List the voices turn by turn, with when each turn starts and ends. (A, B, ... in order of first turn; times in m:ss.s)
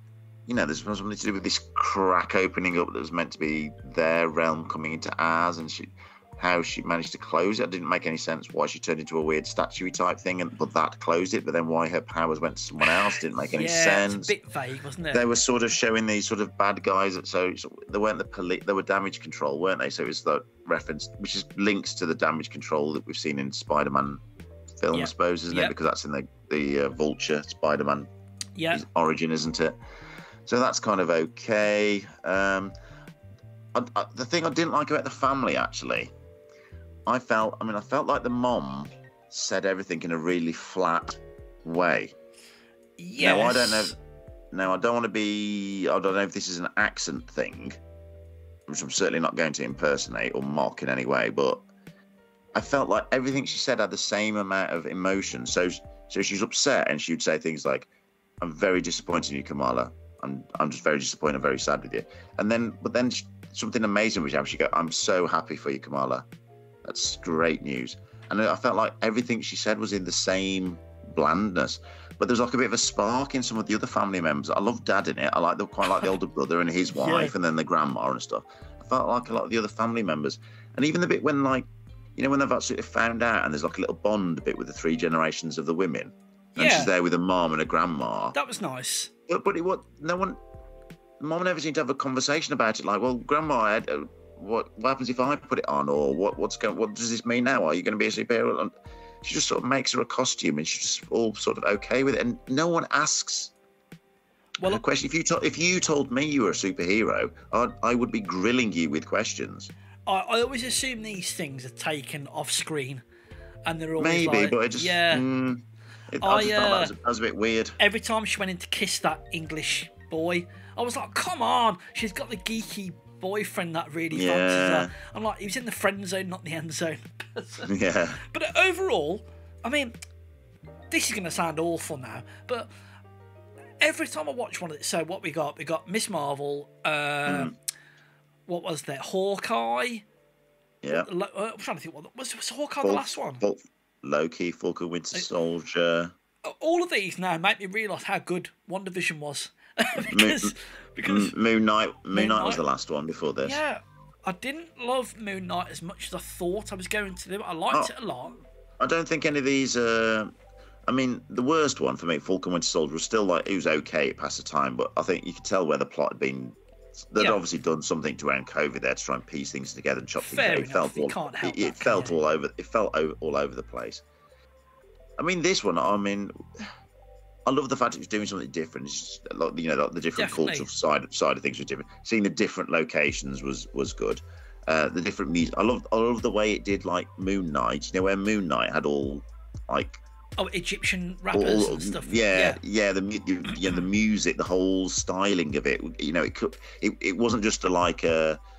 0:00.5-0:14.3 A
0:12.9-0:15.2 B
0:15.1-0:24.2 A
0:24.8-0:28.1 A
0:24.9-0:25.7 B
0:28.6-0:28.8 B
0:28.7-0:29.8 A
0:30.4-0:32.7 A
0:33.7-0:36.1 A
0:37.1-0:42.1 A
0:43.0-0:43.9 B
0:43.2-0:43.9 A
0:44.5-0:47.8 A
0:48.7-0:51.6 A
0:52.5-0:57.9 A
0:58.4-1:06.2 A
1:06.8-1:28.4 A
1:16.9-1:17.3 B
1:26.6-1:26.9 B
1:28.3-1:29.1 B
1:29.3-1:30.4 A
1:31.2-1:38.7 A
1:39.2-1:43.5 A
1:44.6-1:49.7 A
1:50.0-1:53.0 B
1:53.6-1:55.2 B
1:54.0-1:57.8 A
1:56.2-1:56.9 B
1:57.8-2:07.7 B
2:04.1-2:04.9 A
2:07.7-2:08.2 A
2:08.2-2:09.9 B
2:10.9-2:12.7 B
2:13.8-2:17.5 B
2:17.2-2:17.5 A
2:18.5-2:20.0 B
2:20.8-2:21.1 A
2:20.9-2:23.4 B
2:22.8-2:26.1 A
2:26.4-2:31.3 B
2:30.0-2:33.6 A
2:32.1-2:32.6 B
2:33.4-2:38.4 B
2:38.8-2:40.3 A
2:40.9-2:46.6 A
2:47.1-2:54.0 A
2:47.2-2:47.4 B
2:50.2-2:52.2 B
2:55.2-2:56.3 A
2:57.4-3:10.0 A
3:00.2-3:00.7 B
3:10.4-3:12.6 B
3:11.3-3:18.4 A